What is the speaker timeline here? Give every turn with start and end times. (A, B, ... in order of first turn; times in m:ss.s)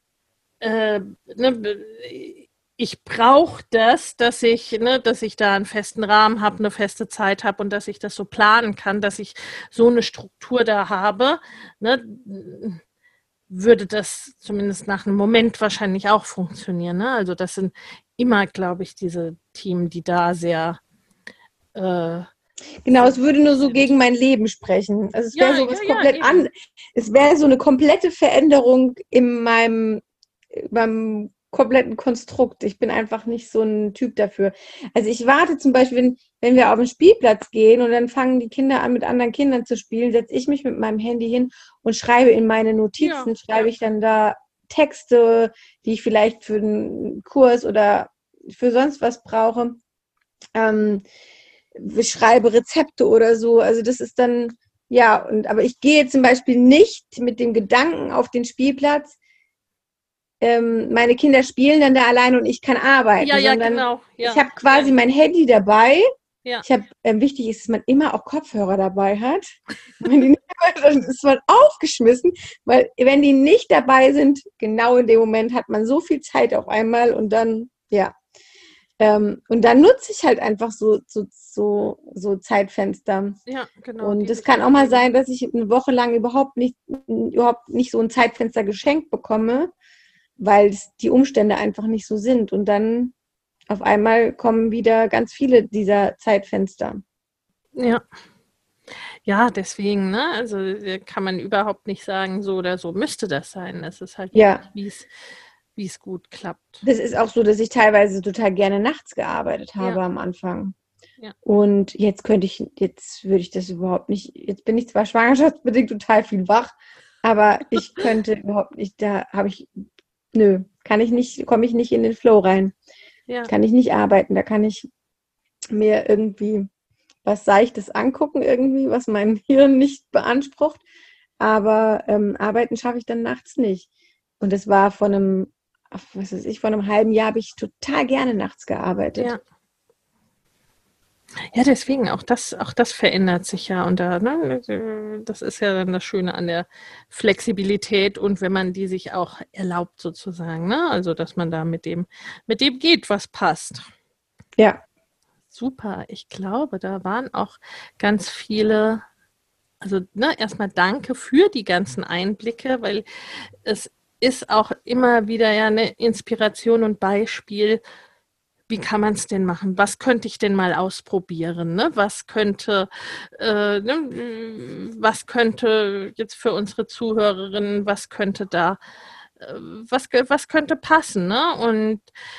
0:00.6-0:12.8 A
0:13.5-0:20.8 A
0:21.8-0:22.3 A
0:22.8-0:49.8 B
0:22.9-0:23.9 A
0:25.3-0:26.5 A
0:43.0-0:43.7 A
0:50.6-0:51.0 B
0:51.7-0:59.2 B
1:00.4-1:06.0 B
1:03.2-1:04.9 A
1:06.6-1:18.1 B
1:19.0-1:23.4 B
1:23.5-1:25.0 A
1:24.0-1:29.7 B
1:30.4-1:33.1 B
1:33.7-1:37.0 B
1:37.8-1:38.0 A
1:39.3-1:45.1 A
1:44.3-1:44.6 B
1:45.8-1:46.8 A
1:46.8-1:50.8 B
1:51.4-2:02.7 B
2:03.5-2:04.9 B
2:05.7-2:06.7 B
2:07.2-2:10.8 B
2:11.4-2:13.9 B
2:14.4-2:19.3 B
2:21.5-2:33.9 A
2:35.5-2:39.0 A
2:39.8-2:43.0 A
2:43.6-2:47.8 A
2:48.7-2:58.8 A
2:59.4-3:02.1 A